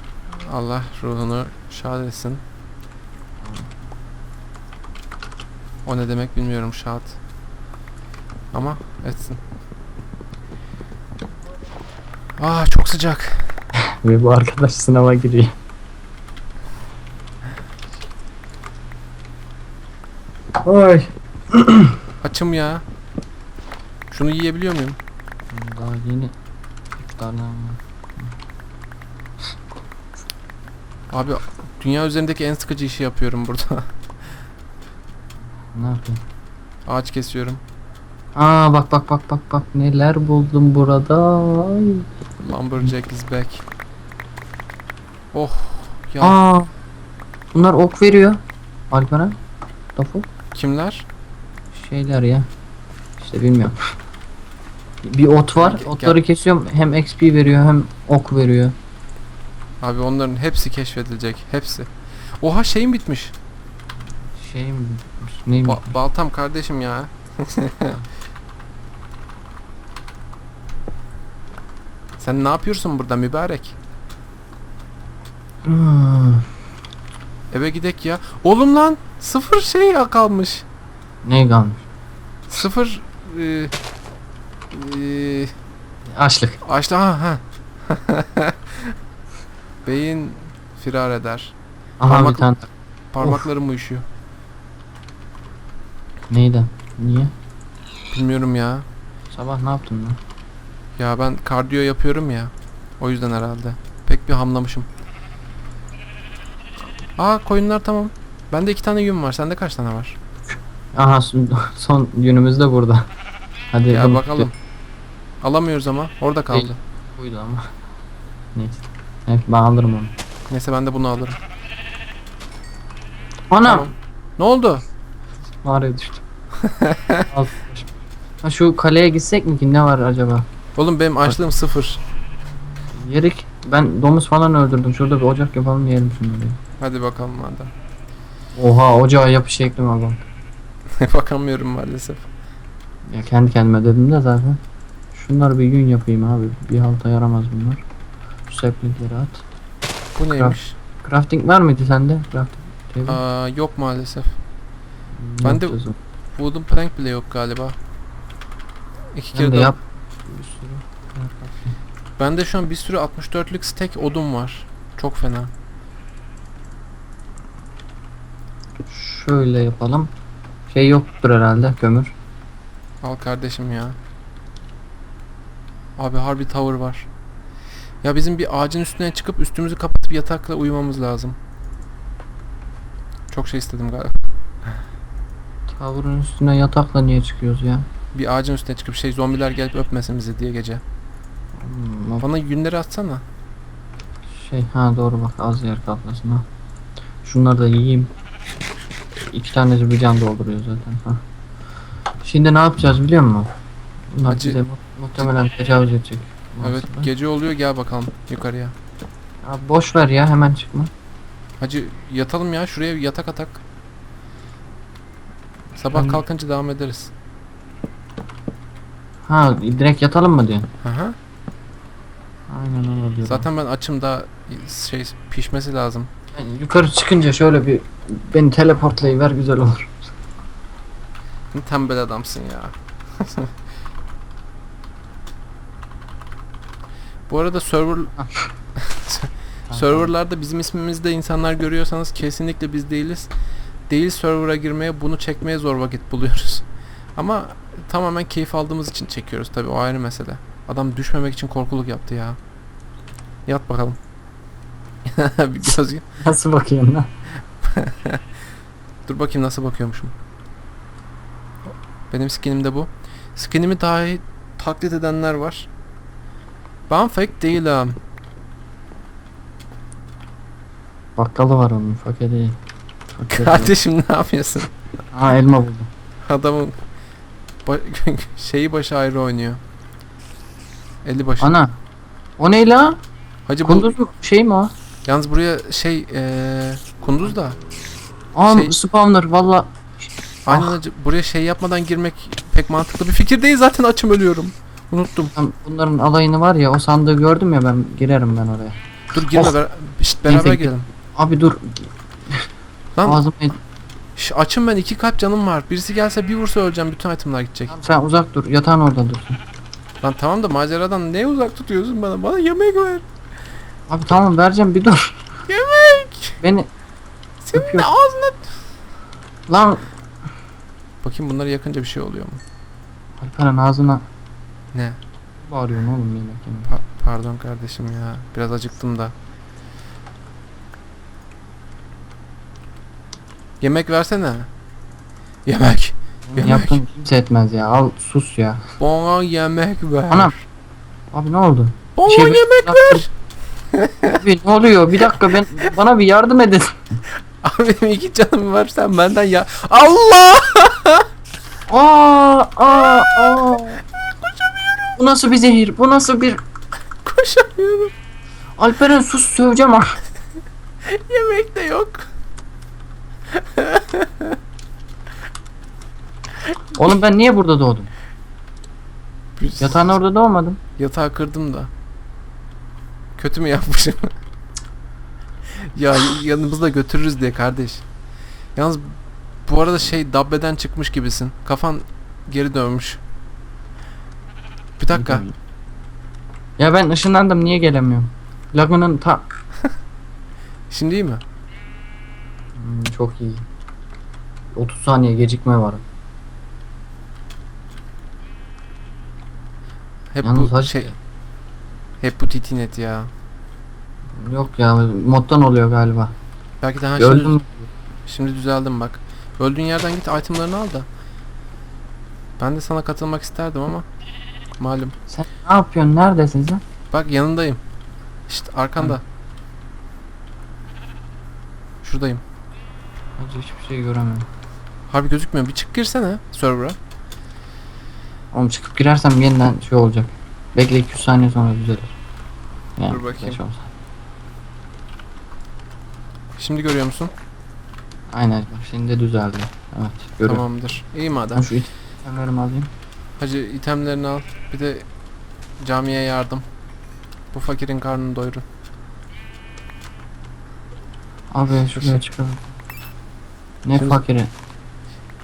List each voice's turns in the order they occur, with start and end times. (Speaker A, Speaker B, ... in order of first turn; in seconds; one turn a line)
Speaker A: 0.3-2.4
Speaker B: 3.4-3.7
Speaker A: 5.8-7.2
Speaker A: 8.5-9.4
Speaker A: 12.4-13.5
Speaker B: 14.0-15.5
Speaker B: 20.6-22.0
Speaker A: 22.2-22.8
Speaker A: 24.1-25.0
Speaker B: 25.5-26.3
Speaker B: 27.0-27.8
Speaker A: 31.1-33.9
Speaker B: 35.7-36.2
Speaker A: 36.9-37.6
Speaker B: 38.3-42.0
Speaker A: 42.4-43.6
Speaker A: 45.3-46.4
Speaker B: 46.2-46.7
Speaker B: 47.5-48.4
Speaker B: 48.9-49.4
Speaker B: 50.0-50.3
Speaker A: 50.5-51.0
Speaker B: 51.7-52.5
Speaker B: 53.2-53.8
Speaker B: 55.0-58.7
Speaker A: 55.6-56.2
Speaker A: 59.8-63.3
Speaker B: 64.3-66.0
Speaker A: 65.6-68.0
Speaker A: 72.2-73.8
Speaker B: 75.6-76.5
Speaker A: 77.5-80.7
Speaker B: 81.2-81.8
Speaker A: 82.5-83.7
Speaker A: 84.7-85.5
Speaker B: 86.1-86.6
Speaker A: 86.6-88.9
Speaker A: 89.8-92.5
Speaker B: 92.0-92.7
Speaker A: 93.1-94.0
Speaker B: 96.3-97.3
Speaker A: 98.1-98.8
Speaker B: 99.3-100.2
Speaker A: 101.0-104.9
Speaker A: 107.2-110.2
Speaker B: 110.5-113.1
Speaker B: 113.7-114.5
Speaker A: 113.9-114.5
Speaker A: 115.4-116.8
Speaker B: 116.5-117.6
Speaker B: 118.5-120.1
Speaker A: 120.5-121.4
Speaker B: 123.5-123.9
Speaker A: 123.6-124.8
Speaker B: 125.5-126.2
Speaker A: 126.7-127.2
Speaker B: 127.3-127.9
Speaker B: 128.4-130.4
Speaker A: 130.8-132.0
Speaker B: 132.9-136.6
Speaker A: 136.8-137.7
Speaker B: 138.5-140.2
Speaker A: 141.0-142.2
Speaker B: 143.1-144.6
Speaker B: 145.1-147.8
Speaker B: 148.5-149.4
Speaker A: 150.2-150.7
Speaker B: 150.3-153.2
Speaker A: 153.1-154.3
Speaker B: 155.2-155.9
Speaker A: 155.4-155.8
Speaker A: 156.3-157.8
Speaker A: 159.1-159.7
Speaker B: 159.3-161.8
Speaker A: 162.2-165.5
Speaker B: 168.9-170.1
Speaker B: 170.7-172.1
Speaker A: 173.0-174.0
Speaker A: 176.0-177.1
Speaker A: 178.0-181.4
Speaker A: 183.3-184.3
Speaker B: 185.7-187.8
Speaker A: 188.1-190.8
Speaker B: 191.6-192.2
Speaker A: 192.2-193.2
Speaker B: 194.3-196.4
Speaker B: 197.2-198.1
Speaker B: 199.3-201.2
Speaker B: 202.2-203.5
Speaker B: 204.1-207.1
Speaker A: 204.3-204.6
Speaker A: 205.2-205.5
Speaker A: 206.6-208.7
Speaker B: 209.4-210.9
Speaker A: 211.6-213.6
Speaker A: 215.8-217.1
Speaker B: 215.9-216.2
Speaker B: 219.2-220.7
Speaker A: 220.8-221.2
Speaker B: 222.5-223.5
Speaker A: 223.2-226.1
Speaker B: 226.3-229.9
Speaker A: 231.5-233.5
Speaker A: 237.3-238.1
Speaker B: 238.2-238.5
Speaker A: 238.8-243.3
Speaker B: 239.7-240.1
Speaker A: 243.9-246.6
Speaker A: 247.2-252.4
Speaker A: 253.4-254.0
Speaker A: 255.1-256.0
Speaker B: 256.2-257.1
Speaker A: 257.6-258.2
Speaker A: 259.1-260.1
Speaker A: 262.1-265.7
Speaker A: 266.9-268.0
Speaker B: 271.1-272.6
Speaker B: 273.1-273.7
Speaker A: 273.3-274.7
Speaker B: 275.1-275.9
Speaker A: 276.2-276.8
Speaker A: 277.6-279.6
Speaker A: 281.0-281.5
Speaker B: 281.4-281.8
Speaker B: 282.4-283.0
Speaker A: 283.4-283.9
Speaker B: 283.6-284.7
Speaker A: 285.0-287.6
Speaker B: 288.3-290.8
Speaker A: 288.4-288.7
Speaker A: 290.4-295.3
Speaker B: 295.3-299.6
Speaker A: 299.1-300.9
Speaker B: 300.2-302.4
Speaker A: 303.0-303.2
Speaker B: 303.0-303.6
Speaker A: 304.1-307.7
Speaker B: 307.7-309.4
Speaker A: 310.0-313.0
Speaker B: 313.9-315.2
Speaker A: 315.5-316.4
Speaker B: 316.4-316.7
Speaker A: 317.4-318.5
Speaker B: 317.5-317.9
Speaker B: 319.5-319.9
Speaker A: 321.0-322.4
Speaker B: 323.2-324.0
Speaker A: 324.7-325.0
Speaker B: 325.4-326.7
Speaker A: 326.7-329.1
Speaker A: 333.6-334.5
Speaker A: 335.4-336.8
Speaker B: 336.3-338.6
Speaker A: 338.8-340.4
Speaker B: 341.1-343.1
Speaker A: 341.9-343.1
Speaker A: 343.7-344.1
Speaker B: 344.1-347.0
Speaker A: 347.4-351.0
Speaker B: 351.7-353.8
Speaker B: 355.0-356.4
Speaker A: 357.0-357.9
Speaker B: 358.6-360.0
Speaker A: 360.8-362.1
Speaker A: 363.3-364.4
Speaker B: 366.8-367.9
Speaker A: 369.4-369.9
Speaker B: 369.6-370.6
Speaker A: 370.8-371.7
Speaker A: 373.2-374.1
Speaker A: 375.5-377.8
Speaker A: 378.6-383.0
Speaker A: 384.8-385.2
Speaker B: 384.9-385.3
Speaker B: 386.6-389.3
Speaker A: 390.7-391.2
Speaker B: 392.6-393.4
Speaker B: 394.5-395.8
Speaker A: 400.1-400.9
Speaker B: 400.2-401.0
Speaker A: 402.0-403.1
Speaker B: 404.2-406.1
Speaker A: 406.6-407.4
Speaker B: 407.0-407.7
Speaker A: 408.1-410.9
Speaker A: 412.4-413.9
Speaker A: 414.6-414.9
Speaker B: 415.1-416.6
Speaker A: 416.9-417.6
Speaker A: 418.3-419.0
Speaker A: 421.8-422.2
Speaker B: 423.2-424.3
Speaker A: 424.9-426.8
Speaker B: 428.3-431.9
Speaker B: 432.8-433.7
Speaker A: 432.9-433.4
Speaker A: 436.4-437.1
Speaker B: 438.1-440.4
Speaker A: 440.3-441.4
Speaker B: 441.3-442.7
Speaker A: 443.2-444.9
Speaker A: 445.6-446.4
Speaker A: 447.3-448.4
Speaker B: 451.3-452.5
Speaker A: 451.7-452.0
Speaker B: 453.6-454.3
Speaker A: 453.7-454.0